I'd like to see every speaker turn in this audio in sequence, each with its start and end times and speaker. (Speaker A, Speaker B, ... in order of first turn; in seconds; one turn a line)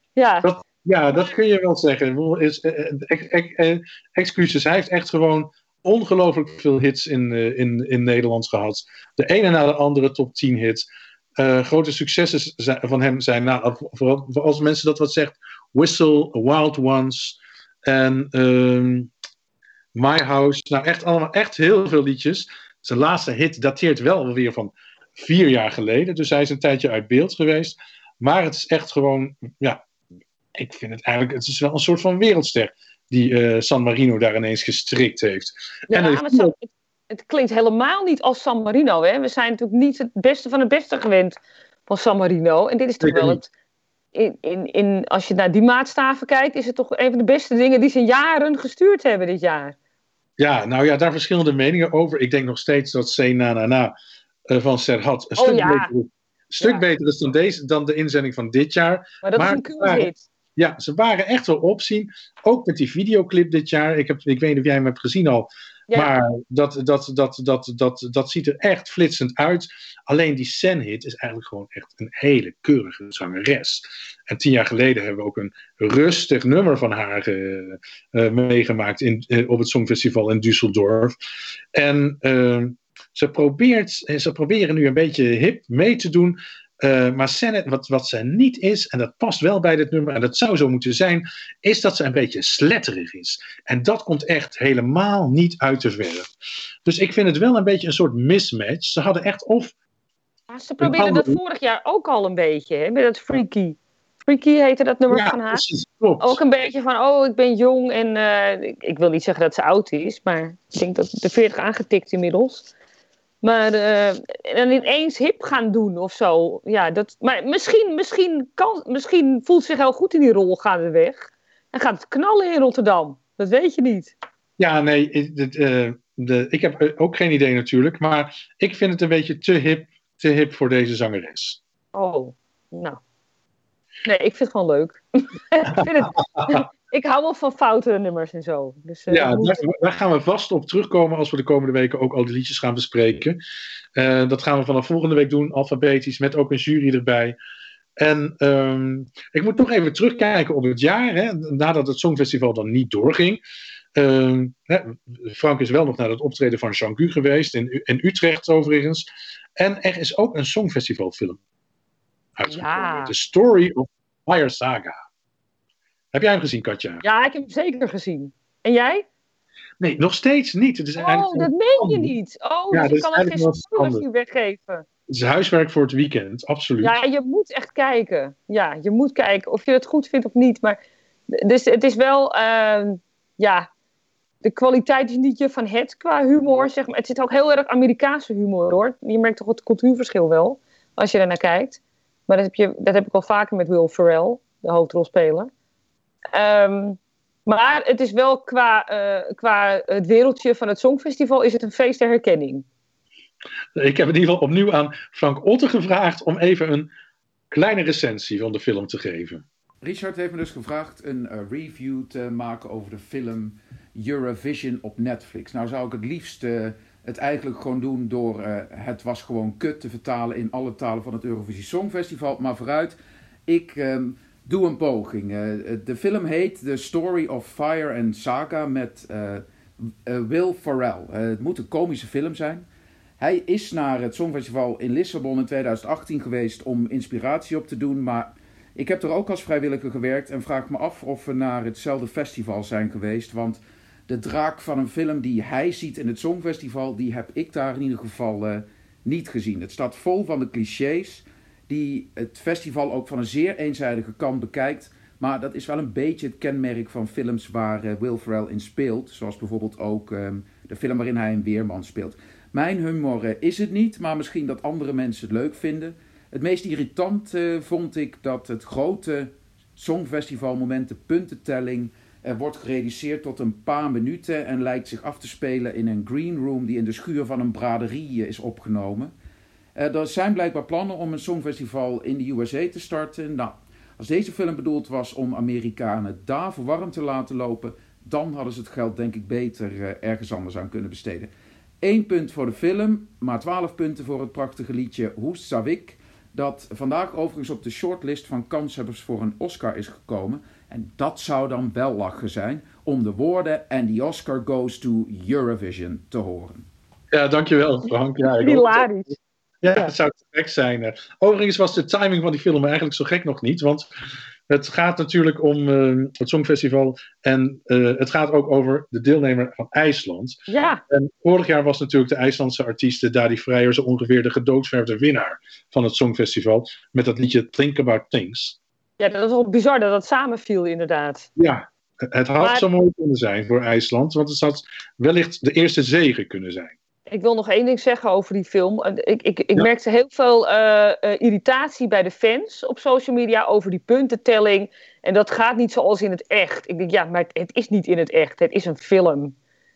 Speaker A: 0.1-0.5
Speaker B: 0.4-10.9
Speaker B: 11.4-19.1
Speaker B: 19.9-29.8
Speaker B: 30.6-36.5
Speaker A: 35.9-43.5
Speaker B: 43.0-43.4
Speaker A: 44.1-49.7
Speaker B: 50.4-53.9
Speaker B: 54.5-81.1
Speaker A: 55.4-55.9
Speaker A: 59.2-60.2
Speaker B: 81.7-96.3
Speaker B: 96.8-99.7
Speaker A: 100.5-105.6
Speaker B: 100.8-101.4
Speaker B: 105.1-106.4
Speaker A: 106.2-112.7
Speaker A: 113.4-124.1
Speaker B: 124.6-131.6
Speaker A: 131.9-133.0
Speaker A: 134.1-139.6
Speaker B: 136.1-136.5
Speaker B: 139.1-143.4
Speaker B: 143.9-147.3
Speaker B: 148.0-153.4
Speaker B: 153.9-159.0
Speaker B: 159.6-161.4
Speaker B: 162.4-165.0
Speaker A: 162.5-163.1
Speaker B: 166.1-167.0
Speaker A: 167.0-169.1
Speaker B: 169.8-172.1
Speaker A: 171.0-174.8
Speaker B: 172.7-174.0
Speaker B: 175.1-176.9
Speaker A: 176.8-180.8
Speaker A: 181.3-183.7
Speaker A: 184.4-195.5
Speaker A: 196.3-202.6
Speaker B: 203.8-206.9
Speaker B: 207.5-209.4
Speaker C: 209.8-232.7
Speaker C: 233.2-279.1
Speaker C: 279.8-306.7
Speaker B: 307.1-308.9
Speaker A: 308.4-309.1
Speaker B: 309.6-313.9
Speaker B: 314.5-320.4
Speaker A: 320.5-320.8
Speaker B: 320.9-328.6
Speaker A: 329.0-331.3
Speaker B: 331.4-336.7
Speaker A: 332.4-332.7
Speaker A: 337.1-349.3